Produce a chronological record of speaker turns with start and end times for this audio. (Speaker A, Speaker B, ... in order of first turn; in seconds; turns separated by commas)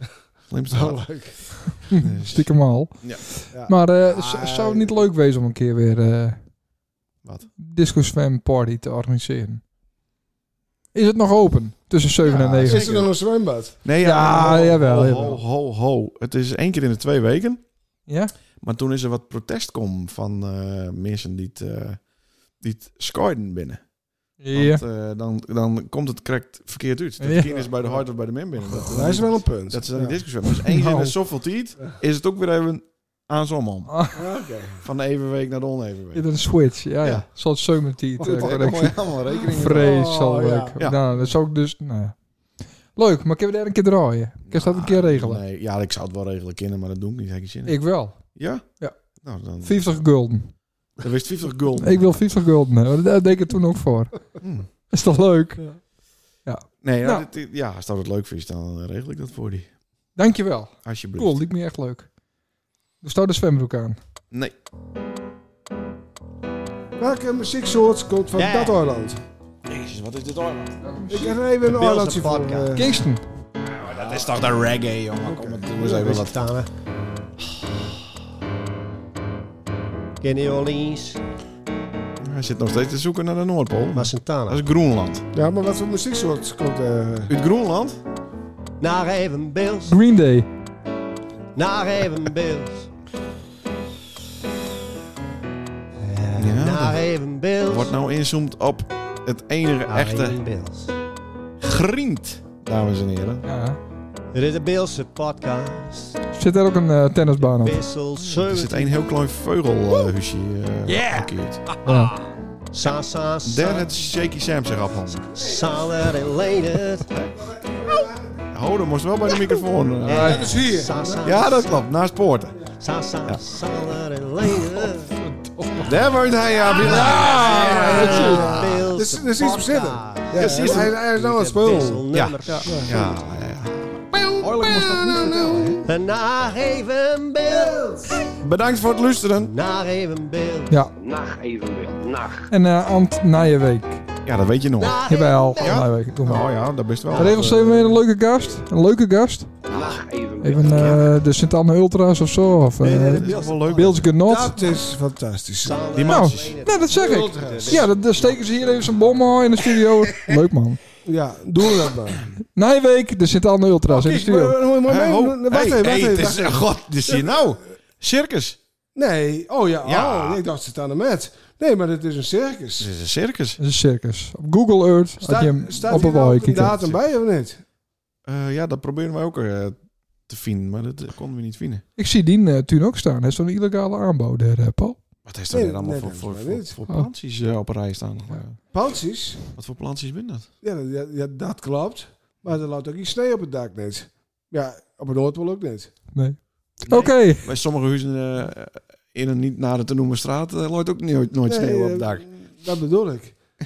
Speaker A: 0.5-1.0, Speaker B: 0.7-1.6, Speaker C: 1.9-6.4, Speaker A: 1.9-2.5, Speaker B: 3.5-5.0, Speaker C: 7.6-9.6, Speaker C: 10.9-12.9, Speaker A: 12.2-13.1, Speaker B: 12.2-14.8, Speaker A: 13.8-17.6, Speaker C: 14.0-15.4, Speaker C: 18.1-18.3, Speaker A: 18.6-22.0, Speaker A: 22.6-23.8, Speaker C: 24.4-24.8, Speaker A: 24.5-34.0, Speaker C: 27.2-27.6, Speaker B: 28.8-30.2, Speaker C: 30.6-31.1, Speaker C: 33.9-34.2, Speaker B: 34.1-34.9, Speaker A: 34.8-36.3, Speaker C: 36.1-42.1, Speaker B: 38.2-38.8, Speaker A: 38.2-40.0, Speaker B: 39.3-40.8, Speaker A: 40.8-41.0, Speaker C: 43.0-45.4, Speaker A: 44.5-48.6, Speaker C: 47.7-49.0, Speaker A: 49.2-50.0, Speaker C: 49.6-50.5, Speaker A: 51.0-52.1, Speaker C: 51.8-54.3, Speaker A: 54.4-54.7, Speaker C: 54.9-55.8, Speaker C: 56.5-57.3, Speaker A: 56.8-59.7, Speaker C: 60.2-62.1, Speaker A: 60.9-61.4, Speaker C: 63.0-64.0, Speaker A: 64.3-64.6, Speaker B: 67.0-69.2, Speaker D: 68.4-68.8, Speaker A: 69.7-70.8, Speaker C: 70.8-71.3, Speaker B: 71.1-73.0, Speaker D: 71.6-72.8, Speaker C: 72.8-73.2, Speaker A: 73.7-76.3, Speaker B: 75.2-76.2, Speaker D: 75.8-76.7, Speaker D: 80.2-81.2, Speaker A: 82.2-85.3, Speaker D: 83.9-84.6, Speaker B: 85.3-87.3, Speaker A: 87.3-88.0, Speaker D: 88.8-90.0, Speaker C: 89.9-90.5, Speaker D: 91.5-92.9, Speaker D: 96.0-97.9, Speaker A: 96.4-97.0, Speaker A: 97.7-100.4, Speaker D: 99.9-100.9, Speaker A: 101.6-103.5, Speaker C: 103.5-103.8, Speaker D: 104.3-106.2, Speaker C: 106.3-107.8, Speaker D: 107.5-109.1, Speaker A: 108.1-111.6, Speaker C: 110.9-112.2, Speaker D: 111.8-112.1, Speaker D: 112.7-114.1, Speaker A: 113.4-115.3, Speaker D: 115.2-117.1, Speaker B: 115.4-116.0, Speaker B: 117.4-118.3, Speaker A: 118.5-120.6, Speaker D: 120.1-121.7, Speaker C: 120.1-120.5, Speaker B: 120.2-121.4, Speaker A: 121.2-122.6, Speaker D: 122.8-125.2, Speaker A: 123.2-123.6, Speaker C: 125.2-126.0, Speaker A: 125.8-128.9, Speaker C: 126.8-128.8, Speaker D: 127.0-133.1, Speaker B: 127.7-132.0, Speaker A: 130.3-130.9, Speaker A: 132.1-135.8, Speaker B: 132.7-133.0, Speaker B: 134.7-135.8, Speaker D: 135.8-138.3, Speaker B: 137.5-138.1, Speaker A: 138.3-139.5, Speaker D: 139.4-140.8, Speaker E: 141.0-142.5, Speaker C: 142.5-144.1, Speaker A: 144.2-147.6, Speaker D: 144.8-145.9, Speaker C: 145.1-146.5, Speaker C: 147.1-149.6, Speaker B: 147.2-148.0, Speaker E: 149.7-150.9, Speaker C: 150.4-154.6, Speaker A: 150.6-151.1, Speaker D: 152.8-153.8, Speaker A: 153.0-154.1, Speaker B: 154.1-155.8, Speaker D: 155.6-159.0, Speaker A: 155.9-156.6, Speaker C: 156.1-160.8, Speaker B: 156.9-157.9, Speaker B: 161.1-162.2, Speaker C: 162.6-164.6, Speaker B: 163.9-167.3, Speaker A: 164.8-168.6, Speaker B: 168.9-172.9, Speaker A: 169.8-170.4, Speaker A: 172.8-173.6, Speaker C: 173.6-176.7, Speaker B: 175.2-177.6, Speaker A: 175.9-177.0, Speaker A: 178.3-179.8, Speaker A: 180.3-181.8, Speaker C: 182.0-185.0, Speaker A: 185.2-188.6, Speaker B: 185.5-186.8, Speaker B: 188.7-189.4, Speaker A: 189.5-190.5, Speaker B: 190.6-195.9, Speaker C: 196.1-197.5, Speaker A: 196.9-202.3, Speaker B: 201.5-203.4